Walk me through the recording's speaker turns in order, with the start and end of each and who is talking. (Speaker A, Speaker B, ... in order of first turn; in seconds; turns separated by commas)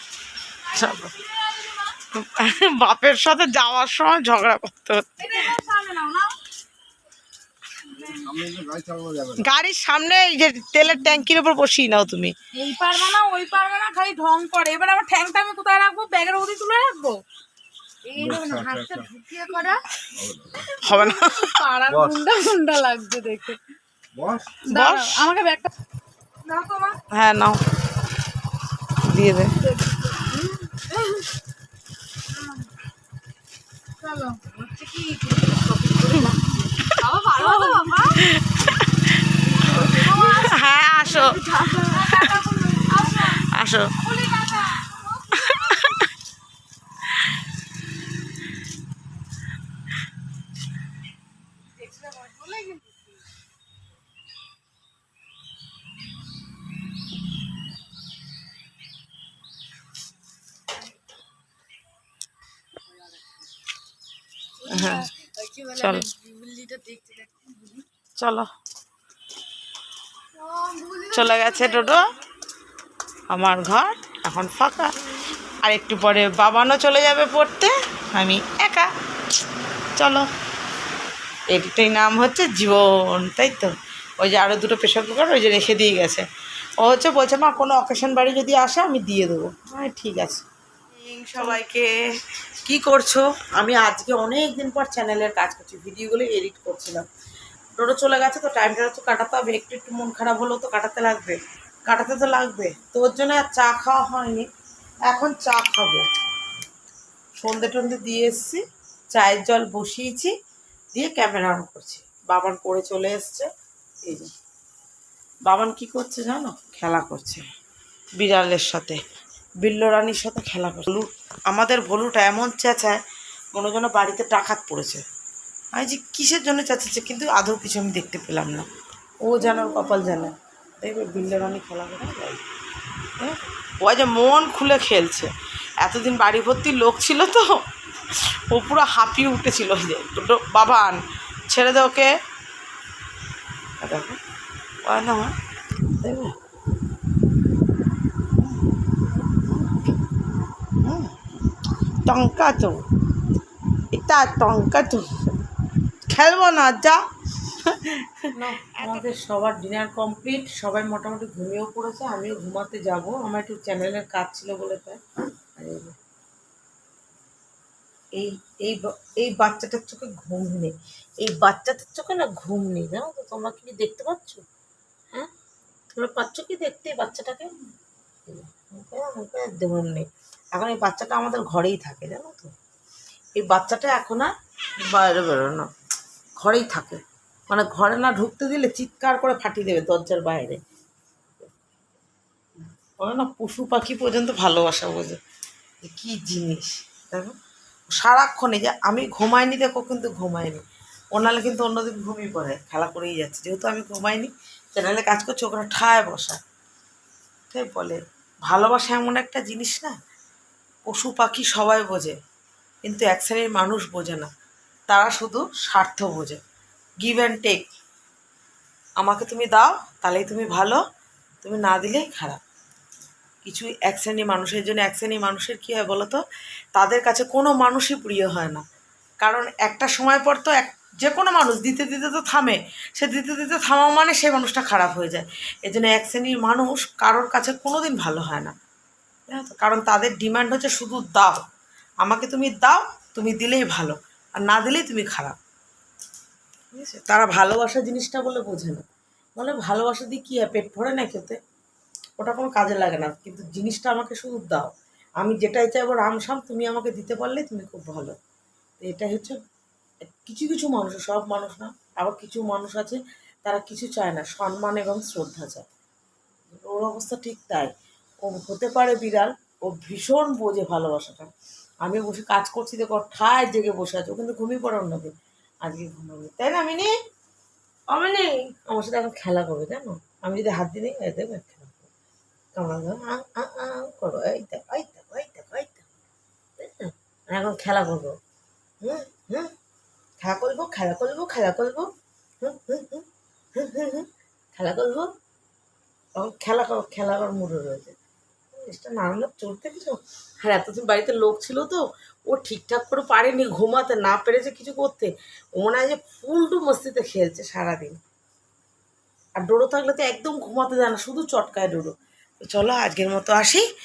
Speaker A: 0.7-1.1, Speaker B: 0.7-2.0, Speaker A: 2.1-5.5, Speaker B: 5.2-6.4, Speaker B: 7.9-8.4, Speaker C: 8.1-9.3, Speaker A: 9.3-12.3, Speaker B: 12.5-17.2, Speaker B: 18.0-19.8, Speaker C: 18.2-19.1, Speaker C: 20.2-20.5, Speaker B: 20.5-23.6, Speaker A: 20.7-21.6, Speaker C: 21.9-22.2, Speaker C: 24.1-24.5, Speaker B: 24.6-25.7, Speaker A: 24.7-25.3, Speaker B: 26.4-27.0, Speaker A: 27.1-27.6, Speaker A: 29.0-29.6, Speaker B: 29.6-31.3, Speaker B: 32.4-32.6, Speaker B: 34.0-38.2, Speaker A: 36.2-37.0, Speaker A: 38.1-42.4, Speaker B: 39.6-43.4, Speaker A: 43.0-44.0, Speaker B: 44.0-46.1, Speaker A: 45.3-46.1, Speaker B: 51.8-52.9, Speaker B: 64.6-67.8, Speaker A: 64.7-65.1, Speaker A: 65.7-66.1, Speaker A: 68.2-68.5, Speaker B: 70.3-72.1, Speaker A: 71.1-72.1, Speaker A: 73.3-74.9, Speaker A: 75.6-78.9, Speaker A: 80.0-80.3, Speaker A: 81.5-86.3, Speaker A: 86.8-92.0, Speaker A: 92.6-97.0, Speaker A: 97.8-104.5, Speaker A: 105.1-106.0, Speaker A: 107.4-110.3, Speaker A: 110.9-113.5, Speaker A: 114.0-114.3, Speaker A: 115.5-117.5, Speaker A: 118.2-119.0, Speaker A: 119.6-123.0, Speaker A: 123.5-125.0, Speaker A: 125.7-128.7, Speaker A: 129.2-132.4, Speaker A: 133.2-137.6, Speaker A: 138.1-142.1, Speaker A: 143.8-144.2, Speaker A: 144.8-145.3, Speaker A: 146.0-146.3, Speaker A: 150.8-151.1, Speaker A: 152.0-152.8, Speaker A: 153.9-155.3, Speaker A: 156.1-157.0, Speaker A: 157.8-165.0, Speaker A: 165.6-165.9, Speaker A: 168.2-174.4, Speaker A: 175.9-177.5, Speaker A: 178.3-182.5, Speaker A: 183.3-185.7, Speaker A: 186.4-190.6, Speaker A: 193.0-195.2, Speaker A: 195.8-197.4, Speaker A: 197.9-206.4, Speaker A: 207.5-209.9, Speaker A: 210.8-212.2, Speaker A: 212.8-214.3, Speaker A: 214.9-216.4, Speaker A: 217.0-217.7, Speaker A: 219.0-220.8, Speaker A: 221.4-222.4, Speaker A: 223.4-226.2, Speaker A: 226.7-228.6, Speaker A: 229.2-238.6, Speaker A: 239.3-241.4, Speaker A: 242.0-245.4, Speaker A: 246.7-248.8, Speaker A: 249.4-251.4, Speaker A: 252.2-258.1, Speaker A: 258.8-259.4, Speaker A: 260.0-265.7, Speaker A: 266.5-271.3, Speaker A: 271.8-276.9, Speaker A: 277.9-281.9, Speaker A: 282.5-285.9, Speaker A: 286.6-288.1, Speaker A: 288.8-289.5, Speaker A: 290.2-291.9, Speaker A: 292.4-295.1, Speaker A: 296.1-297.9, Speaker A: 298.5-308.0, Speaker A: 309.4-313.6